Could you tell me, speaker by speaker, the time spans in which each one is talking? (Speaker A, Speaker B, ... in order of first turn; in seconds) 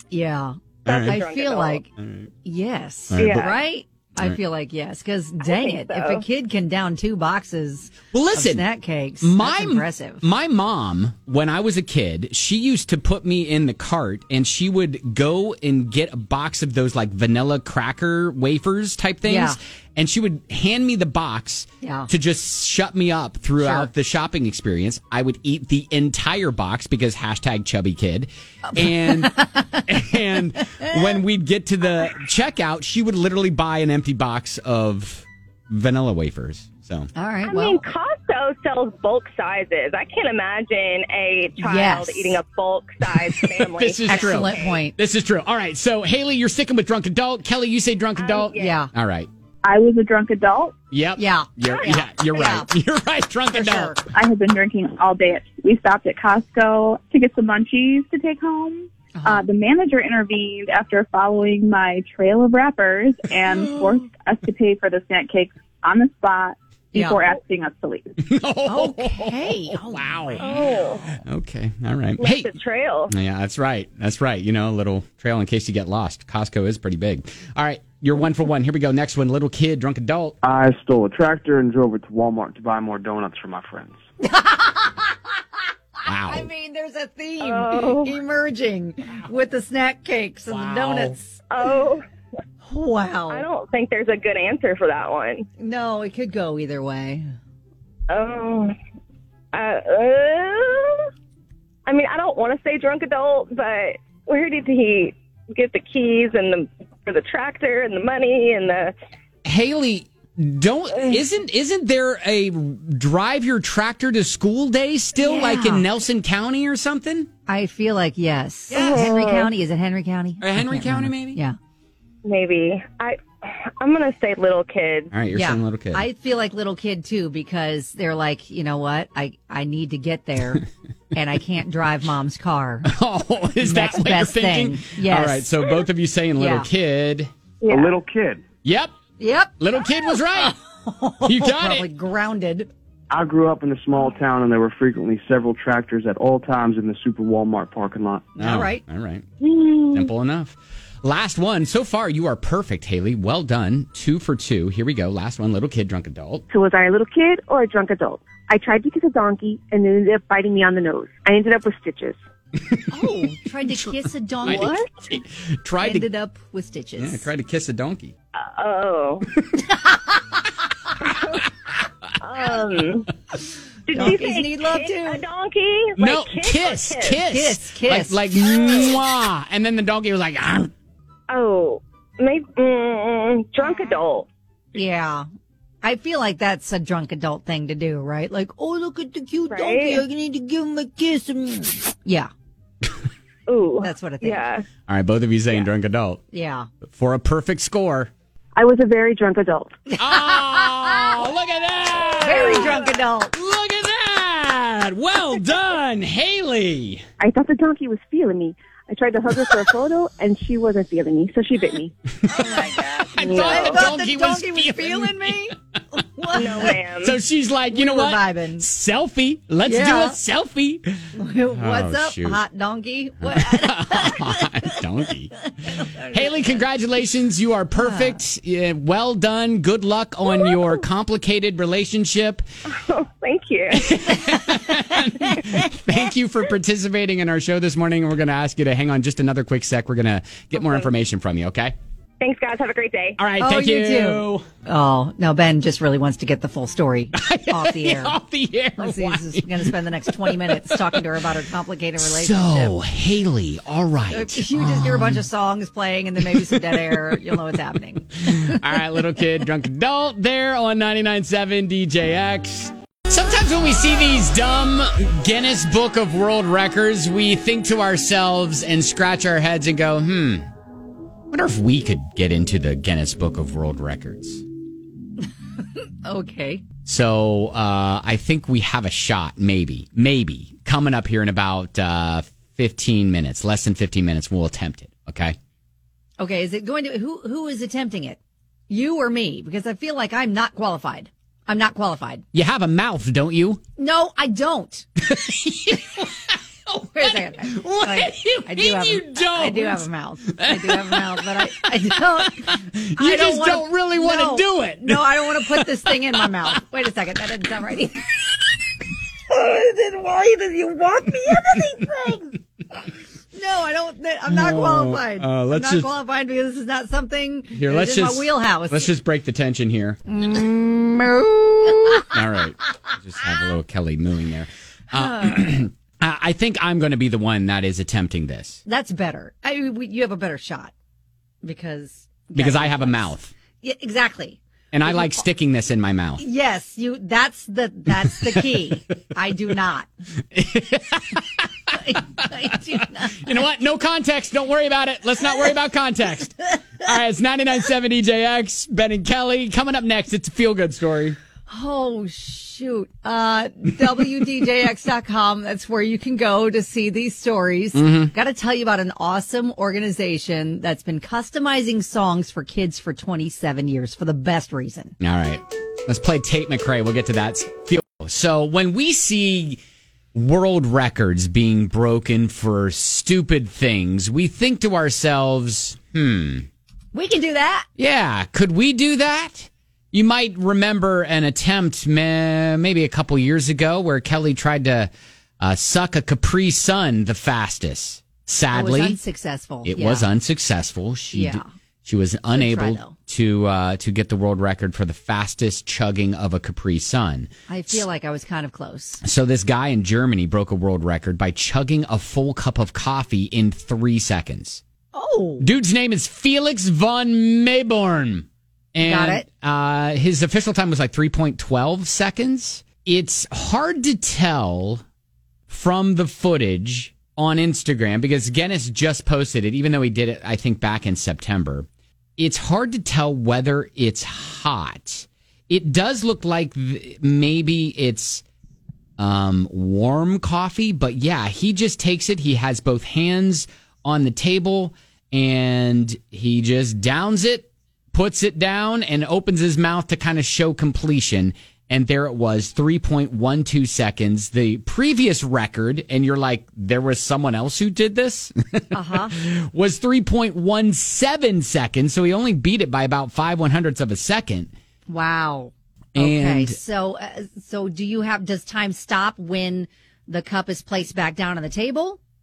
Speaker A: 0.1-1.9, 2.4-10.2, 19.2-19.6, 21.8-22.1, 23.6-23.9, 28.7-29.9, 30.8-31.2, 37.1-37.8, 41.6-42.4, 44.0-44.9, 48.5-48.9, 51.2-52.7, 53.5-54.0, 59.1-59.5, 63.5-64.0, 66.9-67.2, 68.7-71.0, 84.2-85.4, 86.2-91.4, 92.6-93.5, 95.6-97.3, 115.2-115.8, 117.5-121.6, 125.3-132.9, 133.6-135.6, 136.4-136.7, 139.2-142.7, 148.3-148.8, 162.9-164.8, 165.8-167.3, 173.9-175.2, 177.2-178.9, 183.6-184.0, 184.7-185.3, 185.8-192.3, 193.8-194.4, 196.3-196.7, 199.9-201.2, 202.2-203.3, 212.2-216.8, 217.7-218.7, 219.6-220.2, 221.1-224.8, 225.6-226.6, 227.7-228.2, 243.4-248.2, 248.8-252.8, 254.1-258.8, 275.8-276.6, 286.2-292.2, 293.8-294.9, 296.9-308.2, 309.3-312.4, 313.3-318.9, 320.1-322.2, 324.9-325.6, 328.6-330.7, 331.4-335.2, 336.2-339.9, 341.7-343.4, 351.5-364.9, 376.9-377.7, 388.5-390.1, 391.1-391.5, 392.3-392.9, 397.5-399.0, 404.9-405.5, 408.8-409.2, 448.7-449.1, 454.9-462.0
Speaker B: 0.8-1.2, 2.0-2.3, 3.1-3.5, 8.1-8.7, 9.2-37.1, 43.3-49.3, 50.9-54.0, 68.2-70.6, 71.1-72.5, 73.1-80.4, 86.0-86.5, 90.5-91.2, 109.4-117.3, 118.7-119.1, 120.4-121.4, 125.1-126.0, 132.8-137.3, 138.6-138.9, 139.6-140.6, 141.2-141.9, 148.4-149.2, 149.9-156.4, 162.6-163.1, 163.6-166.1, 167.0-168.1, 176.0-180.7, 194.9-196.2, 196.8-198.1, 200.0-207.0, 212.2-215.5, 216.4-222.4, 223.2-232.4, 233.7-241.7, 243.2-244.5, 247.1-251.0, 252.0-255.2, 256.3-257.4, 258.2-270.5, 271.3-274.4, 276.8-285.4, 292.3-293.6, 295.0-306.5, 314.3-315.9, 317.5-320.0, 322.1-328.6, 332.3-333.3, 334.7-336.2, 340.3-351.2, 357.7-358.1, 365.0-369.6, 370.1-376.5, 377.8-389.0, 389.6-397.8, 399.0-404.6, 405.4-414.8, 415.5-428.2, 429.0-454.5, 455.9-456.6
Speaker C: 0.8-1.8, 3.2-3.5, 5.4-6.2, 37.4-44.7, 48.1-48.8, 70.4-71.0, 72.2-73.1, 87.4-88.2, 91.5-92.0, 93.3-95.5, 98.1-98.7, 99.5-101.1, 101.9-108.9, 118.7-119.5, 122.2-125.1, 149.4-150.1, 164.4-164.9, 168.4-169.2, 171.1-171.4, 172.2-173.1, 173.9-177.2, 181.3-184.3, 189.5-190.0, 193.5-194.6, 213.2-213.8, 216.3-217.2, 232.7-234.0, 240.6-240.9, 242.2-243.2
Speaker D: 49.6-50.8, 54.1-68.1
Speaker E: 80.4-84.0, 137.6-138.4, 143.1-148.3
Speaker F: 156.5-162.2, 198.5-199.8, 207.2-211.9